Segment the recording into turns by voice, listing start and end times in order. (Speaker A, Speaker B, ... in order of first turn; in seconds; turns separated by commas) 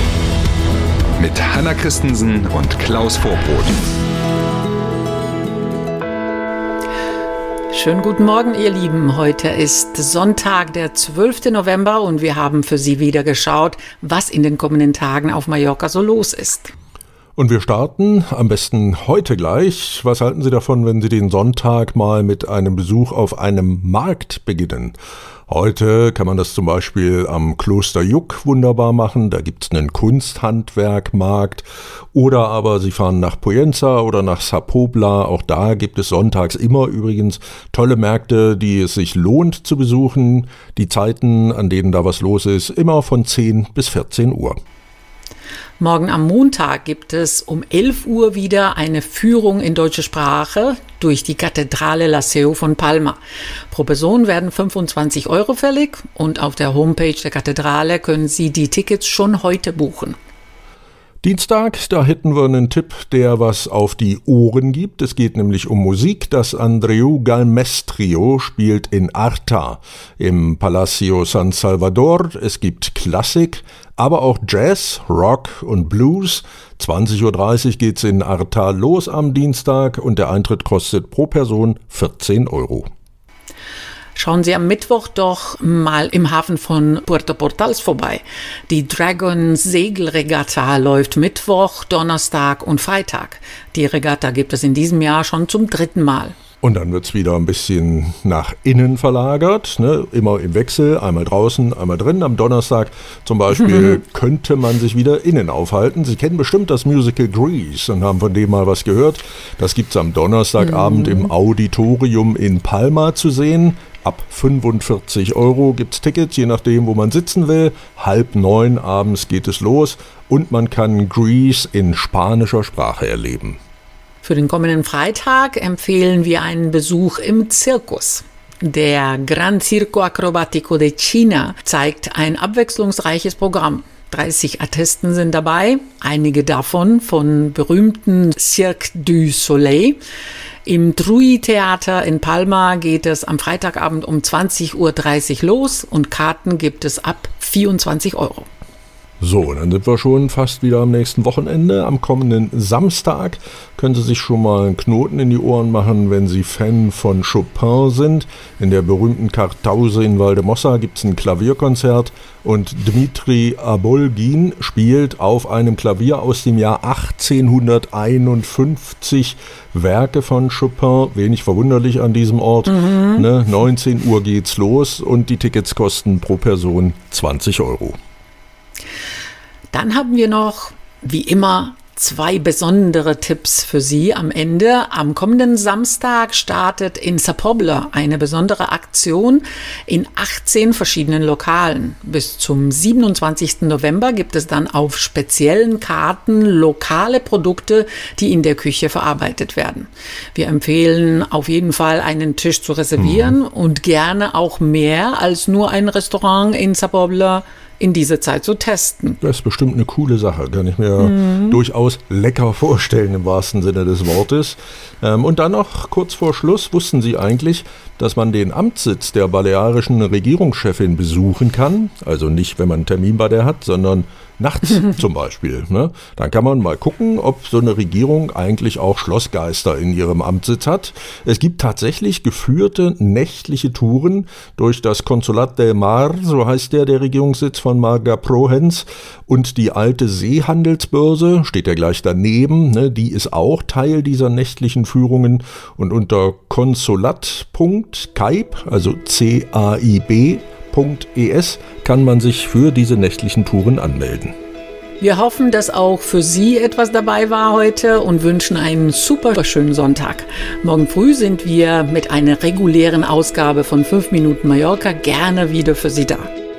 Speaker A: 1.2-3.8, Speaker B: 7.7-16.7, Speaker C: 17.4-25.0, Speaker C: 25.5-44.6, Speaker B: 45.8-53.2, Speaker B: 53.7-60.2, Speaker C: 61.2-82.9, Speaker B: 84.2-96.4, Speaker C: 96.6-123.6, Speaker B: 124.2-140.0, Speaker B: 140.7-148.5, Speaker C: 149.2-178.0, Speaker B: 179.7-209.2, Speaker C: 203.0-203.3, Speaker C: 209.2-254.3, Speaker B: 255.0-266.3